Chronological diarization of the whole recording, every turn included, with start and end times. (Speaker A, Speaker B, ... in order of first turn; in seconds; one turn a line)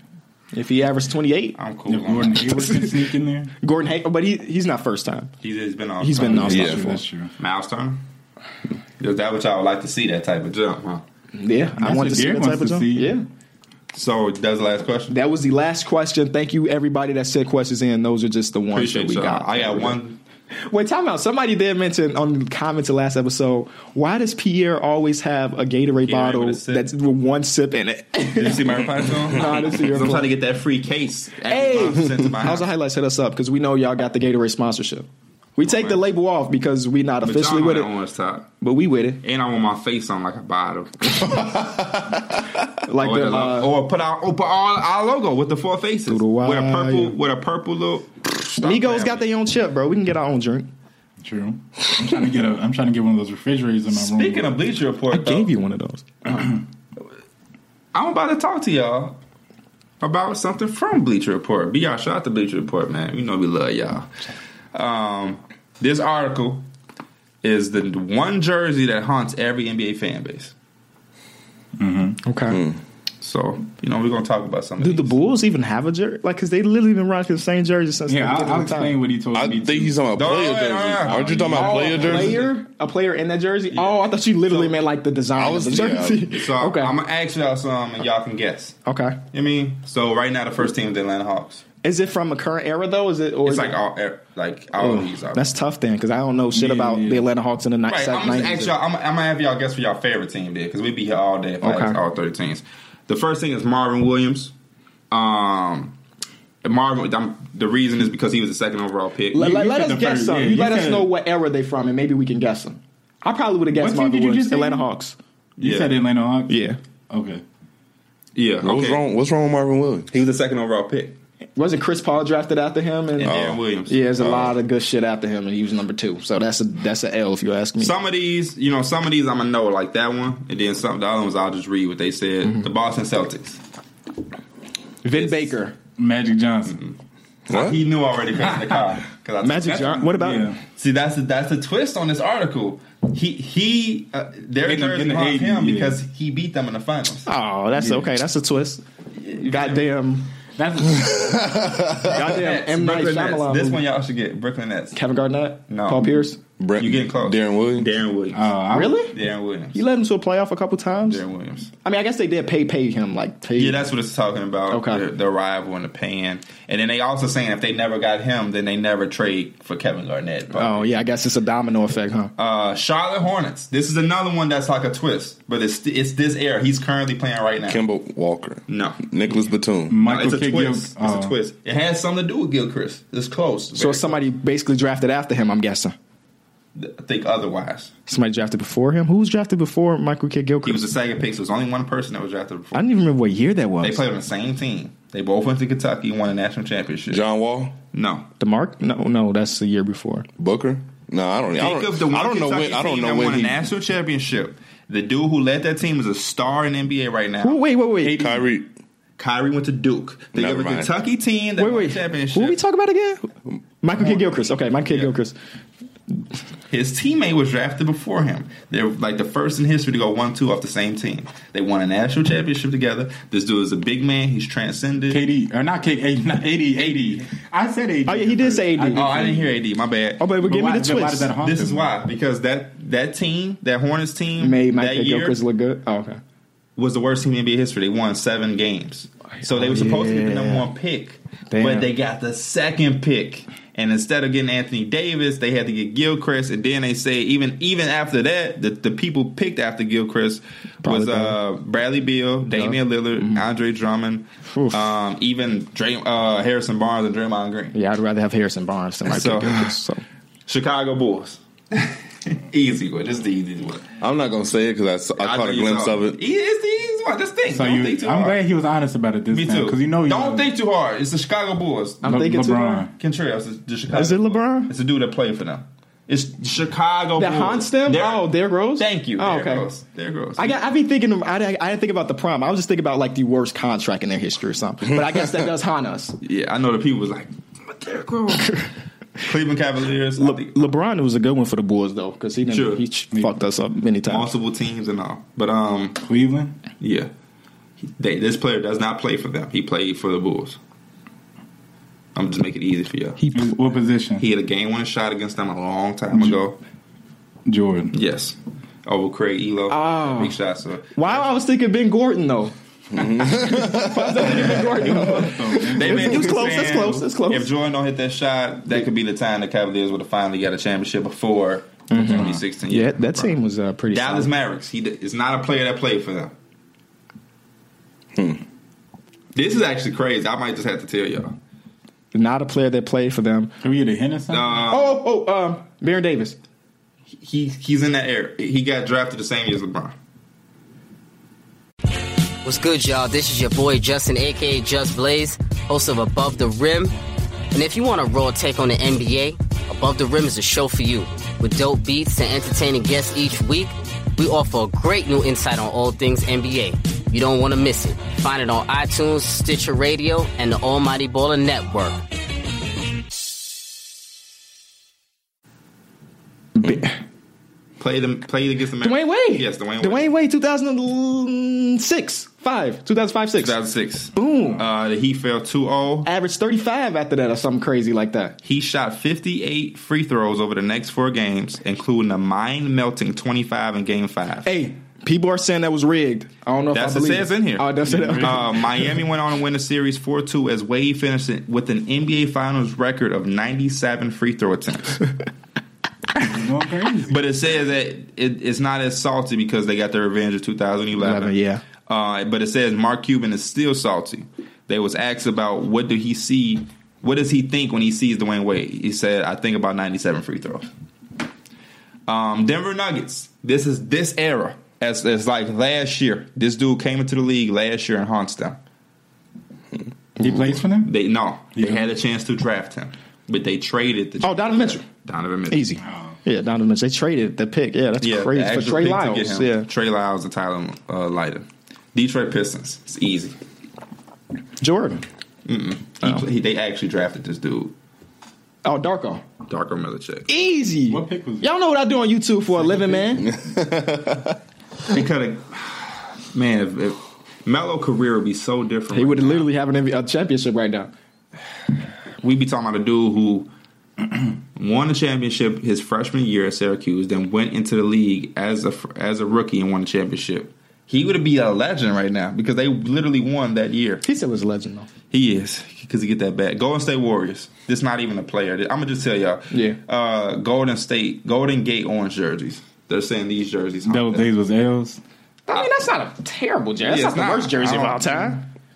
Speaker A: 0.5-1.6
Speaker B: 1.6-2.7
Speaker C: 1.9-3.5
Speaker A: 2.4-3.1
Speaker A: 3.6-5.3
Speaker B: 5.4-6.8
Speaker A: 6.0-7.0
Speaker C: 6.2-7.3
Speaker D: 6.5-6.8
Speaker B: 7.4-8.0
Speaker B: 9.0-11.0
Speaker A: 11.3-13.3
Speaker C: 11.8-13.1
Speaker B: 13.9-15.2
Speaker A: 15.1-20.0
Speaker B: 18.7-20.2
Speaker A: 20.6-30.3
Speaker B: 26.1-26.9
Speaker B: 28.4-32.7
Speaker A: 31.4-37.9
Speaker B: 35.6-36.0
Speaker B: 37.2-38.5
Speaker A: 38.6-39.2
Speaker B: 39.2-41.4
Speaker D: 41.1-42.3
Speaker A: 42.8-43.7
Speaker B: 43.0-49.2
Speaker A: 46.1-47.2
Speaker A: 48.6-50.7
Speaker C: 51.2-54.5
Speaker B: 53.9-55.5
Speaker A: 55.1-56.5
Speaker B: 57.9-59.2
Speaker B: 60.0-64.1
Speaker B: 64.7-66.7
Speaker B: 67.4-70.5
Speaker C: 71.8-72.2
Speaker A: 72.2-72.6
Speaker D: 72.5-72.8
Speaker B: 73.2-75.2
Speaker A: 74.8-79.0
Speaker C: 78.1-80.0
Speaker D: 79.3-82.5
Speaker B: 80.2-82.4
Speaker C: 81.1-82.3
Speaker A: 81.5-86.9
Speaker B: 83.7-84.8
Speaker D: 85.4-86.3
Speaker B: 86.3-88.8
Speaker A: 88.8-89.2
Speaker B: 89.3-91.6
Speaker A: 91.8-93.8
Speaker B: 93.5-95.5
Speaker A: 94.8-98.7
Speaker C: 96.5-97.3
Speaker B: 97.9-104.5
Speaker A: 101.6-102.0
Speaker B: 105.1-106.0
Speaker B: 106.6-109.6
Speaker A: 109.3-115.2
Speaker C: 109.4-111.1
Speaker C: 113.8-114.9
Speaker B: 115.6-115.9
Speaker C: 115.6-116.6
Speaker A: 116.5-116.8
Speaker C: 117.1-117.4
Speaker B: 118.3-119.0
Speaker D: 118.6-120.1
Speaker B: 120.1-121.2
Speaker A: 121.6-127.9
Speaker B: 123.2-124.3
Speaker D: 123.2-123.6
Speaker D: 124.2-124.5
Speaker B: 127.8-133.6
Speaker A: 135.0-135.8
Speaker B: 135.1-135.5
Speaker C: 136.0-136.8
Speaker B: 136.7-137.0
Speaker D: 137.5-137.8
Speaker B: 137.5-140.1
Speaker C: 138.4-138.8
Speaker A: 139.4-140.5
Speaker C: 139.7-140.6
Speaker B: 140.7-147.3
Speaker C: 144.6-146.0
Speaker A: 147.3-148.8
Speaker B: 149.2-149.8
Speaker A: 149.4-150.3
Speaker C: 150.6-151.6
Speaker D: 150.9-152.2
Speaker A: 152.1-153.8
Speaker B: 152.2-155.0
Speaker A: 154.9-156.4
Speaker B: 155.7-156.2
Speaker D: 156.6-157.9
Speaker B: 156.8-158.5
Speaker C: 158.3-159.0
Speaker A: 158.7-159.2
Speaker B: 159.1-159.8
Speaker A: 159.7-161.2
Speaker B: 161.1-161.7
Speaker A: 161.8-163.9
Speaker B: 163.6-170.9
Speaker A: 164.7-165.0
Speaker A: 170.5-172.3
Speaker B: 172.4-177.8
Speaker D: 177.7-180.0
Speaker B: 178.7-179.0
Speaker C: 179.9-181.3
Speaker B: 180.0-184.2
Speaker A: 183.8-185.9
Speaker B: 186.8-187.9
Speaker A: 188.1-190.9
Speaker B: 190.6-192.8
Speaker A: 192.7-194.0
Speaker B: 193.8-197.2
Speaker D: 197.1-197.8
Speaker B: 197.9-198.3
Speaker A: 198.4-200.3
Speaker D: 200.4-203.7
Speaker B: 201.6-207.6
Speaker A: 207.4-208.4
Speaker D: 208.0-208.7
Speaker B: 209.2-212.6
Speaker D: 210.3-210.9
Speaker A: 211.6-215.3
Speaker B: 216.7-225.2
Speaker C: 225.1-229.5
Speaker A: 228.1-229.1
Speaker B: 228.9-230.2
Speaker A: 230.2-231.3
Speaker C: 230.4-231.9
Speaker B: 231.4-235.4
Speaker A: 234.4-236.2
Speaker B: 236.8-257.8
Speaker A: 239.4-240.7
Speaker A: 241.5-241.9
Speaker A: 250.8-251.4
Speaker A: 252.4-253.4
Speaker A: 254.5-254.8
Speaker A: 257.7-260.0
Speaker B: 259.1-259.7
Speaker B: 260.5-263.8
Speaker D: 264.0-266.2
Speaker B: 265.2-268.4
Speaker C: 267.5-270.4
Speaker B: 269.3-272.1
Speaker A: 272.0-272.9
Speaker C: 272.0-272.9
Speaker B: 273.0-280.6
Speaker A: 273.9-274.7
Speaker A: 277.2-279.7
Speaker A: 280.4-286.2
Speaker B: 286.2-288.7
Speaker B: 289.2-290.7
Speaker A: 290.2-294.3
Speaker B: 292.5-292.8
Speaker B: 294.1-296.0
Speaker C: 296.0-296.5
Speaker B: 296.8-297.1
Speaker B: 297.8-300.6
Speaker B: 302.1-303.2
Speaker A: 303.2-303.6
Speaker C: 303.3-304.2
Speaker B: 304.2-306.6
Speaker C: 307.5-307.9
Speaker B: 307.9-311.3
Speaker A: 309.7-310.4
Speaker A: 310.9-312.5
Speaker D: 312.9-314.1
Speaker A: 313.2-317.5
Speaker B: 314.3-323.4
Speaker C: 314.4-317.0
Speaker A: 321.9-324.3
Speaker C: 322.1-322.4
Speaker B: 323.9-326.3
Speaker D: 328.2-328.4
Speaker B: 329.4-331.4
Speaker A: 332.1-333.5
Speaker C: 333.6-334.6
Speaker B: 334.3-335.0
Speaker A: 334.7-336.4
Speaker B: 337.2-339.9
Speaker E: 342.4-346.9
Speaker E: 347.5-362.0
Speaker A: 366.6-367.0
Speaker B: 367.8-370.1
Speaker A: 368.8-373.6
Speaker B: 373.4-376.1
Speaker A: 374.1-374.6
Speaker A: 376.0-378.4
Speaker B: 378.4-384.5
Speaker A: 384.4-388.5
Speaker B: 386.7-395.1
Speaker C: 387.9-388.5
Speaker C: 396.2-397.2
Speaker B: 397.1-401.3
Speaker A: 400.9-401.6
Speaker B: 401.9-410.7
Speaker B: 412.1-418.6
Speaker C: 420.2-420.9
Speaker B: 420.3-425.6
Speaker C: 421.6-421.8
Speaker A: 424.2-424.8
Speaker A: 425.5-429.7
Speaker C: 425.8-426.2
Speaker B: 428.0-433.4
Speaker A: 434.6-435.1
Speaker B: 435.5-437.7
Speaker A: 438.6-439.2
Speaker B: 439.5-440.3
Speaker A: 440.3-443.3
Speaker C: 440.9-441.5
Speaker D: 443.2-444.4
Speaker B: 444.9-449.5
Speaker A: 448.9-450.9
Speaker B: 452.2-453.5
Speaker B: 454.6-464.0
Speaker A: 464.0-464.9
Speaker B: 465.1-474.3
Speaker A: 469.5-469.8
Speaker C: 473.9-475.0
Speaker A: 475.5-478.4
Speaker B: 476.9-478.4